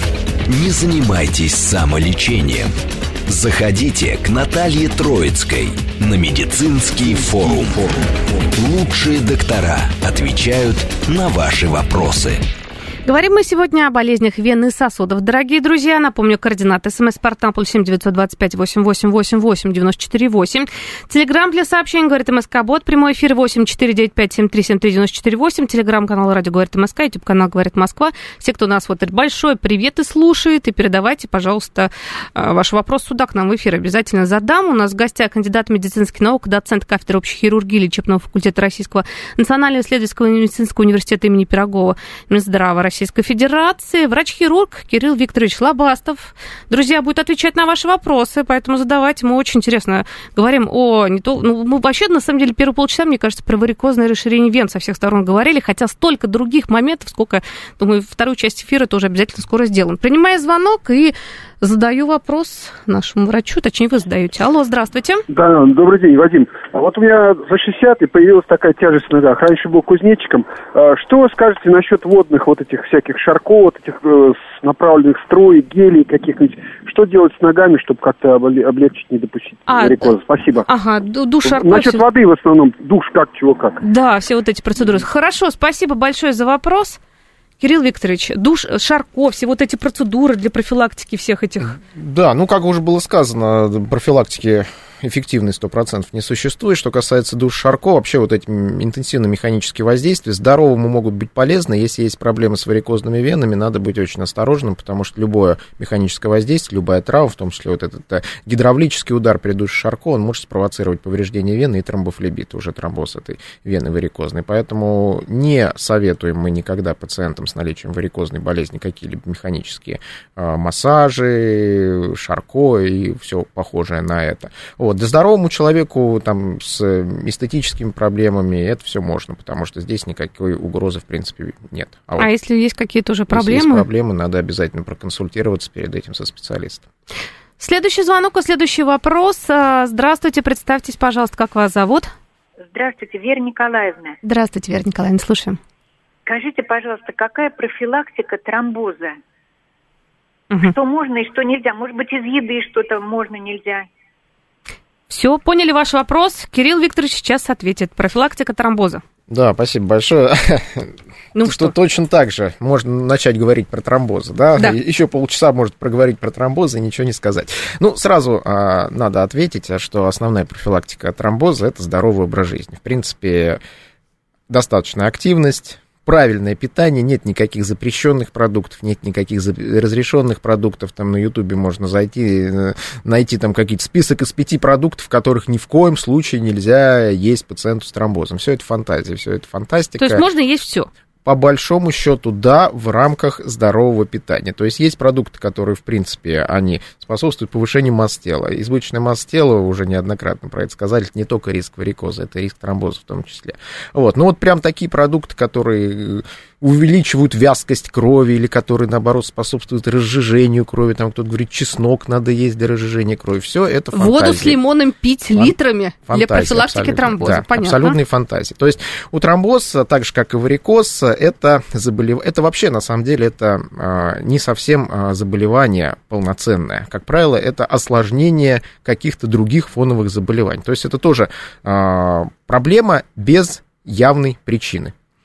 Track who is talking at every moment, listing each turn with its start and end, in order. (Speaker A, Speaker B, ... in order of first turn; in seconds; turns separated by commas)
Speaker A: 0.5-2.8, Speaker A: 3.3-12.4, Speaker B: 13.1-65.2, Speaker C: 65.3-80.7, Speaker B: 79.7-82.0, Speaker C: 81.5-83.8, Speaker B: 83.8-87.0, Speaker B: 87.6-91.8, Speaker D: 91.7-132.3, Speaker B: 132.2-133.9, Speaker D: 133.3-136.9, Speaker B: 137.6-142.1, Speaker E: 142.7-144.2, Speaker B: 144.2-145.6, Speaker E: 146.3-149.2, Speaker E: 150.6-153.9, Speaker B: 155.1-159.0, Speaker D: 159.3-160.9, Speaker B: 161.3-161.7, Speaker D: 161.4-173.6, Speaker D: 174.5-190.2, Speaker B: 190.0-190.9, Speaker D: 191.2-214.6, Speaker B: 213.9-218.0, Speaker D: 215.4-234.9